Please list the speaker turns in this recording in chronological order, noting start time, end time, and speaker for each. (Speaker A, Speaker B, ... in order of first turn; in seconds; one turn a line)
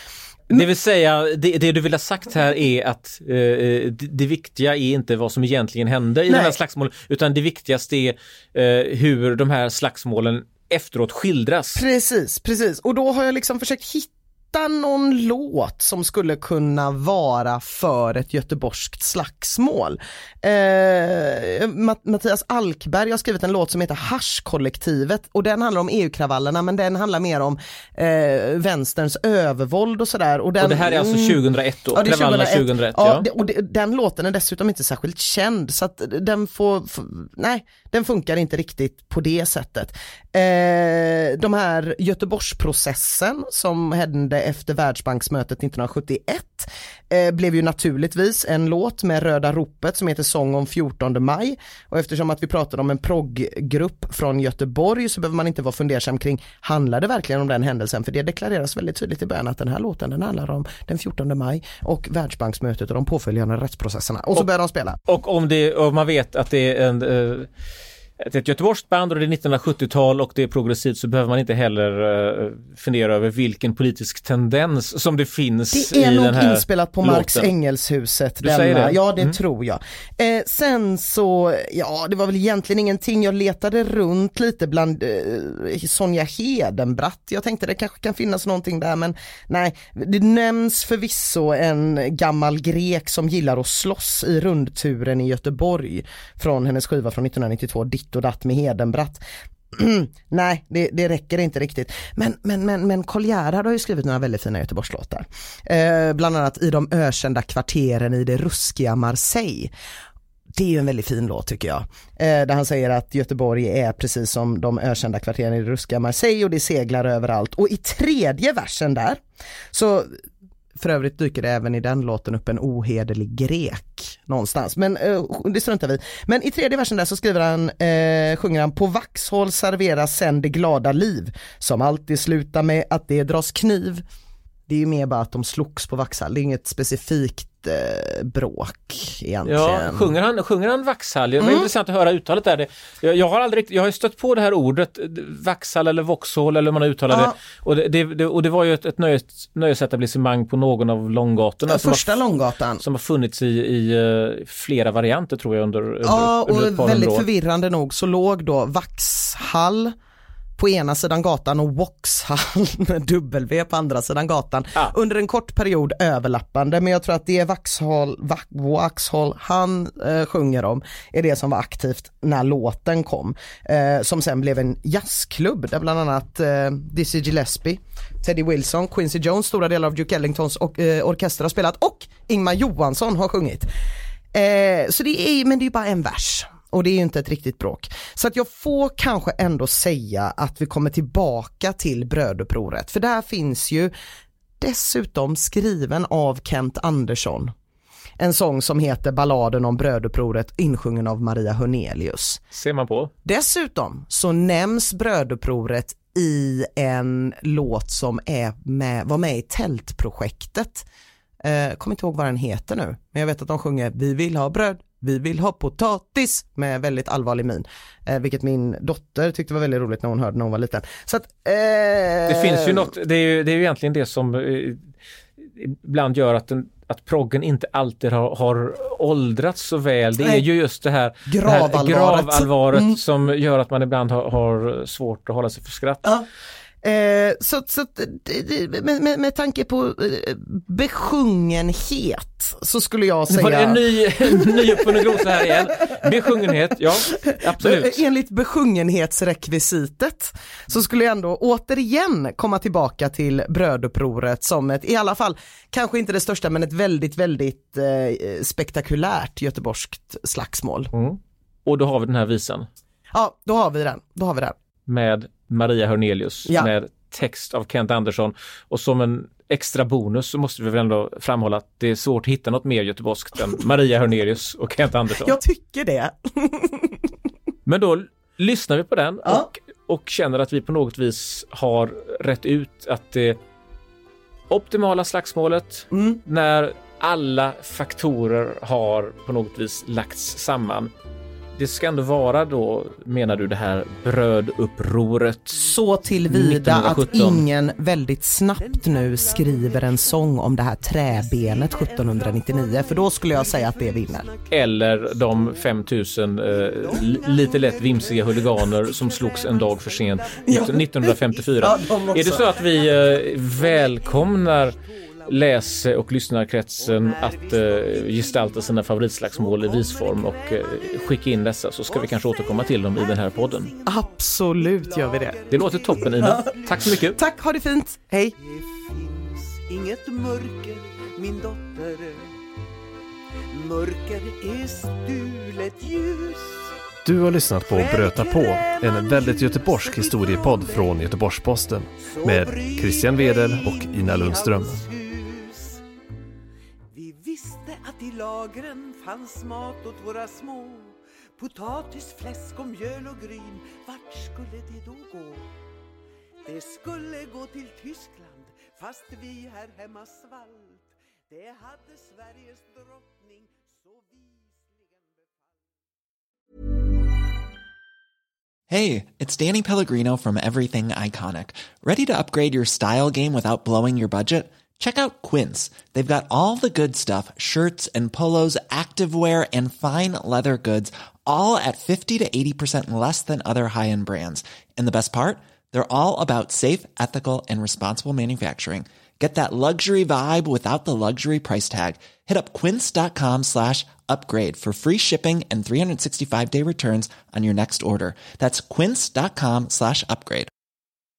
Speaker A: 0.5-11.8
Speaker B: 6.3-6.5
Speaker B: 11.8-31.4
Speaker A: 30.6-33.2
Speaker B: 31.9-65.0
Speaker A: 65.1-67.5
Speaker A: 68.2-77.5
Speaker B: 75.7-109.7
Speaker A: 78.4-79.4
Speaker B: 110.5-120.2
Speaker B: 120.7-134.0
Speaker B: 134.7-140.1
Speaker A: 139.4-152.1
Speaker B: 141.4-141.7
Speaker B: 147.1-147.3
Speaker B: 151.7-152.8
Speaker A: 152.8-157.2
Speaker B: 156.0-159.9
Speaker B: 160.6-183.7
Speaker B: 184.3-193.9
Speaker B: 194.6-197.5
Speaker B: 198.2-202.4
Speaker A: 202.5-203.1
Speaker B: 203.2-210.8
Speaker B: 211.4-222.9
Speaker A: 222.2-236.1
Speaker B: 230.2-230.4
Speaker B: 231.3-233.0
Speaker B: 236.8-246.1
Speaker A: 243.3-248.0
Speaker B: 247.1-260.9
Speaker A: 260.9-262.7
Speaker B: 263.1-264.6
Speaker A: 264.9-275.4
Speaker B: 266.4-266.7
Speaker B: 275.2-277.1
Speaker A: 277.6-283.4
Speaker A: 284.5-290.9
Speaker B: 285.9-286.2
Speaker A: 291.6-295.6
Speaker C: 295.6-297.4
Speaker B: 295.6-304.3
Speaker A: 296.3-297.5
Speaker C: 298.5-315.9
Speaker A: 304.5-314.8
Speaker B: 310.5-312.4
Speaker A: 315.3-323.7
Speaker C: 316.8-321.3
Speaker C: 321.9-327.2
Speaker B: 323.9-325.4
Speaker A: 325.5-327.2
Speaker B: 326.0-328.4
Speaker C: 328.4-332.4
Speaker C: 333.5-336.8
Speaker D: 337.0-344.8
Speaker C: 337.6-341.0
Speaker C: 342.0-345.8
Speaker C: 346.9-355.5
Speaker C: 356.4-365.6
Speaker E: 368.7-400.5